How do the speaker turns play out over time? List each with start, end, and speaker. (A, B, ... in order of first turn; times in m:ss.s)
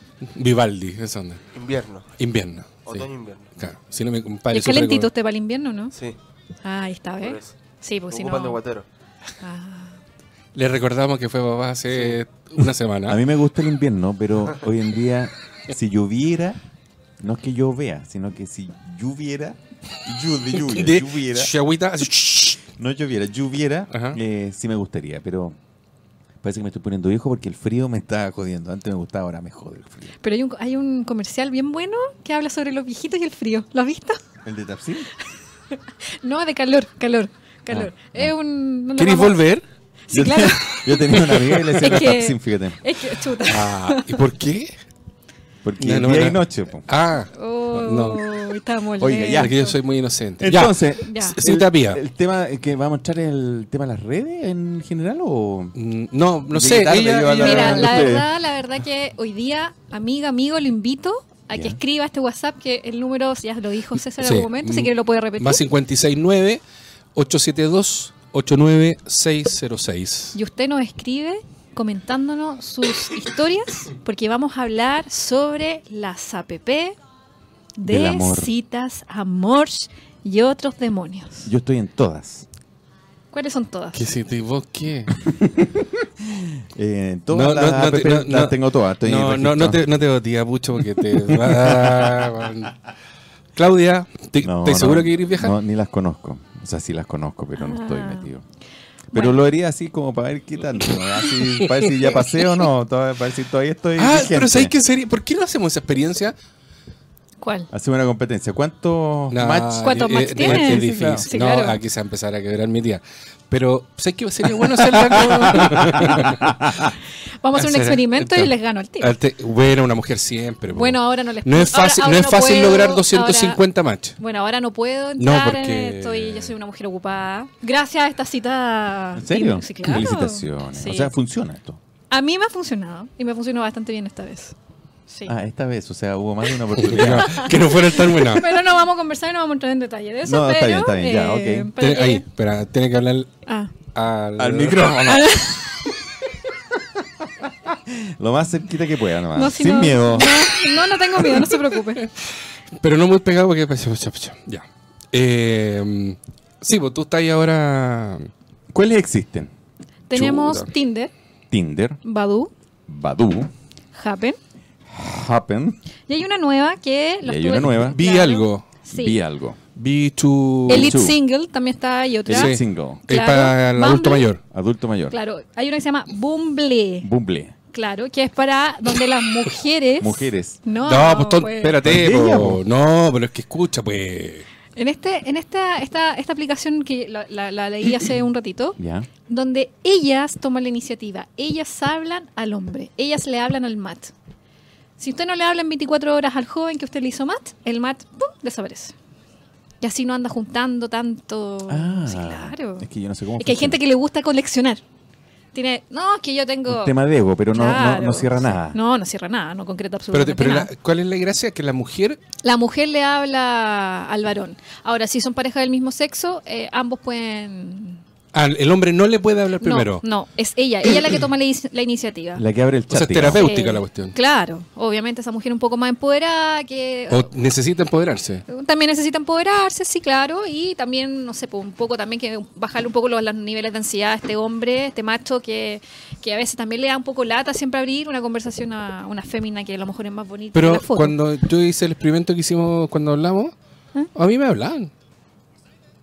0:00.2-0:01.4 A
0:01.5-0:02.0 B
0:02.2-0:05.1 A
0:02.8-0:03.5 B
0:04.5-0:05.9 C
0:06.6-0:08.6 C
0:07.2-0:07.5 B
0:08.1-0:08.8 B
0:09.4-0:10.0 C
0:10.5-0:13.2 A
0:13.1-0:16.6 D
0:17.2-0:21.5 D
0:20.6-0:22.6 A
0:22.8-0:25.6 D
0:23.9-0:24.2 A
0:26.4-0:30.1 D
0:30.2-0:34.2 C
0:34.4-0:35.1 D
0:35.8-0:39.4 C
0:37.7-0:38.3 D
0:39.0-0:39.6 A
0:40.1-0:44.2 C
0:40.1-0:42.8 D
0:40.7-0:41.8 A
0:43.4-0:44.7 A
0:45.6-0:46.8 D
0:45.8-0:48.3 A
0:47.3-0:49.7 C
0:49.0-0:49.6 D
0:49.3-0:52.0 A
0:50.4-0:55.7 D
0:51.0-0:51.4 C
0:55.7-0:58.2 A
0:56.5-0:58.3 D
0:57.4-1:05.6 C
1:01.5-1:01.8 D
1:04.2-1:06.6 A
1:07.1-1:10.4 A
1:10.3-1:16.9 C
1:17.8-1:21.5 C
1:17.8-1:18.5 D
1:21.4-1:22.4 D
1:23.3-1:24.0 C
1:23.9-1:25.2 A
1:25.2-1:29.8 D
1:27.3-1:32.8 A
1:31.1-1:32.4 D
1:33.6-1:35.6 A
1:34.4-1:38.4 D
1:37.6-1:38.3 C
1:39.1-1:39.4 C
1:39.1-1:44.7 D
1:41.6-1:41.9 A
1:44.0-1:46.4 A
1:47.4-1:47.7 C
1:47.7-1:51.3 D
1:49.3-1:56.6 A
1:49.8-1:51.8 C
1:55.1-1:56.9 D
1:57.4-1:59.2 C
1:57.5-2:04.2 A
2:00.7-2:03.6 C
2:04.2-2:11.1 C
2:05.2-2:06.5 A
2:09.2-2:11.8 D
2:12.1-2:14.5 C
2:15.1-2:15.3 C
2:15.3-2:17.5 D
2:16.8-2:18.5 A
2:17.2-2:22.2 C
2:20.2-2:21.7 D
2:21.8-2:23.3 A
2:23.4-2:23.7 C
2:23.9-2:25.3 A
2:24.4-2:25.5 D
2:25.0-2:25.8 C
2:26.8-2:30.8 D
2:29.3-2:32.1 C
2:32.8-2:38.3 A
2:38.7-2:39.5 D
2:40.1-2:41.1 C
2:40.1-2:40.7 A
2:41.5-2:42.0 D
2:42.0-2:42.5 C
2:42.9-2:43.5 D
2:43.9-2:44.4 C
2:44.9-2:45.8 D
2:46.1-2:49.2 C
2:47.2-2:48.0 D
2:47.8-2:48.6 A
2:48.9-2:49.6 D
2:49.8-2:51.0 A
2:50.7-2:51.2 D
2:50.7-2:54.3 C
2:52.3-2:53.0 D
2:52.3-2:54.4 A
2:54.5-2:55.2 D
2:55.1-2:57.1 C
2:57.0-2:57.5 D
2:57.7-3:01.8 C
3:00.0-3:00.6 D
3:00.8-3:04.5 A
3:01.8-3:02.6 D
3:04.8-3:14.1 C
3:08.8-3:09.1 D
3:15.0-3:18.9 C
3:19.8-3:24.8 C
3:21.7-3:23.8 D
3:25.5-3:27.0 C
3:26.7-3:28.8 D
3:27.5-3:30.7 C
3:30.1-3:32.2 A
3:32.4-3:38.0 C
3:38.3-3:40.0 A
3:39.6-3:42.4 C
3:42.4-3:43.4 D
3:42.9-3:44.2 A
3:43.3-3:47.3 C
3:47.1-3:48.4 A
3:48.5-4:01.2 C
4:00.5-4:03.5 A
4:04.1-4:04.9 A